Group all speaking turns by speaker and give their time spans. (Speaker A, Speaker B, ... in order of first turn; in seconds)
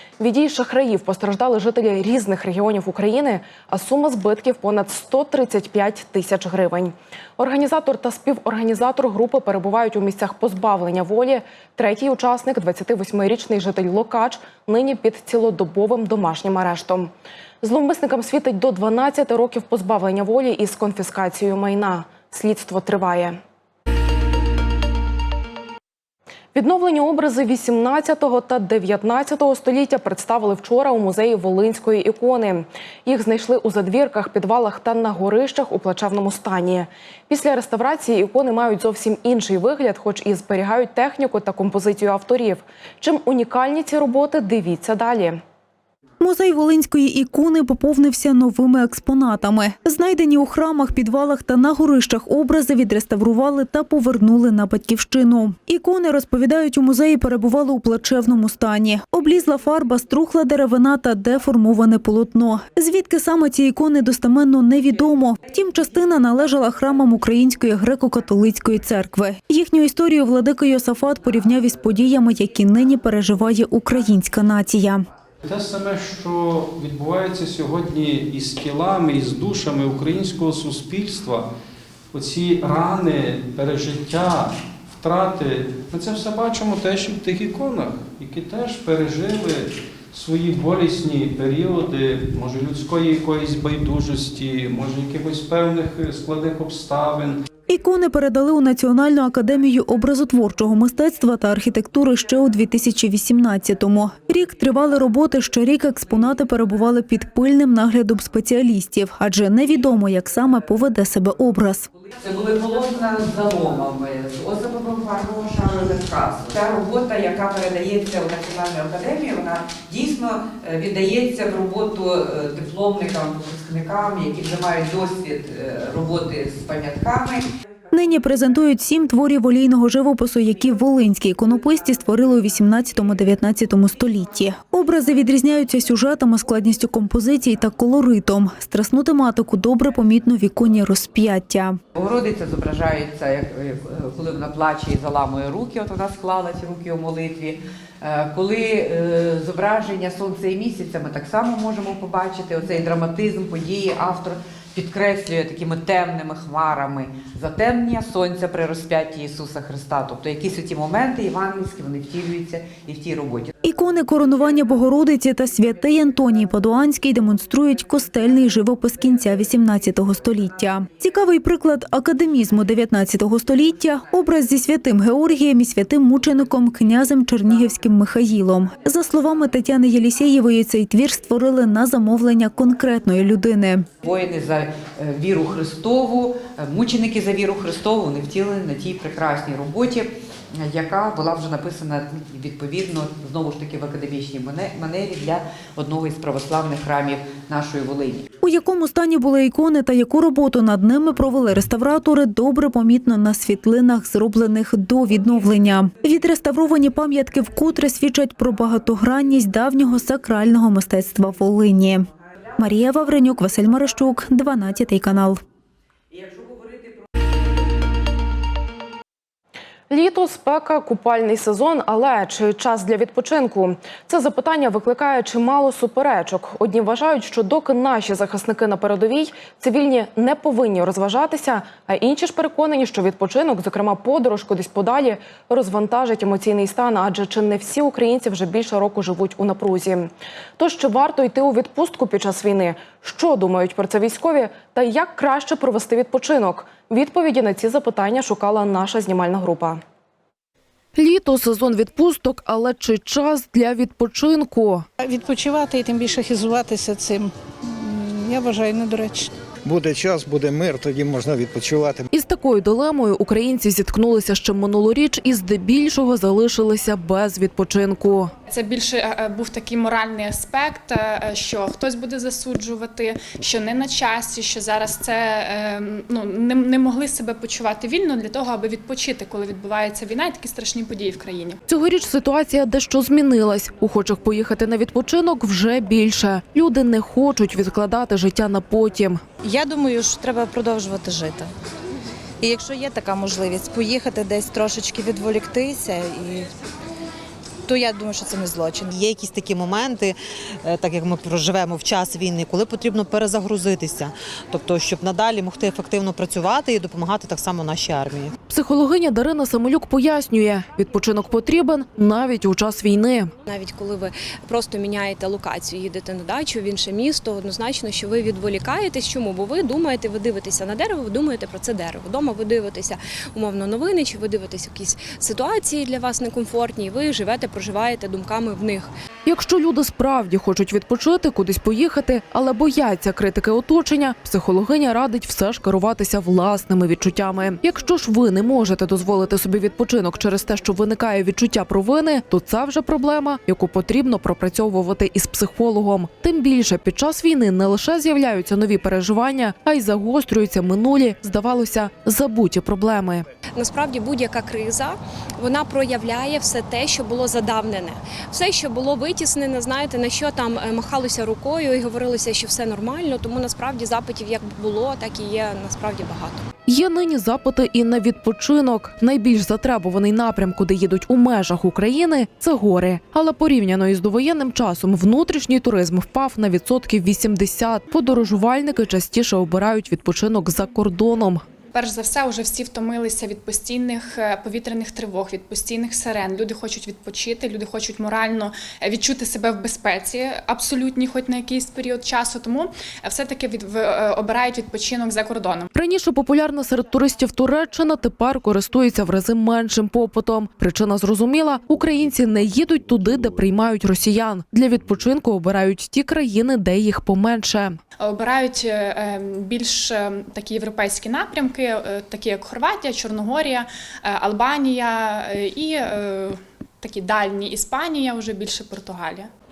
Speaker A: 0.2-23.4, 26.5-45.4, 219.9-249.8, 250.9-254.8, 262.1-268.3, 281.7-289.2, 308.5-313.3, 329.3-353.2, 366.7-381.4, 395.7-407.8
Speaker B: 46.2-75.0, 97.7-111.9, 127.9-141.8, 163.6-183.9, 198.4-215.4
Speaker C: 75.5-81.5, 82.1-97.4
Speaker D: 112.2-127.5, 142.0-163.5, 184.0-198.3
Speaker E: 255.0-259.3
Speaker F: 259.6-262.1
Speaker G: 268.5-281.6, 381.7-395.7, 408.0-419.3
Speaker H: 289.4-291.5, 292.4-296.5, 297.7-298.9
Speaker I: 298.9-308.3
Speaker J: 313.5-328.9, 353.6-366.4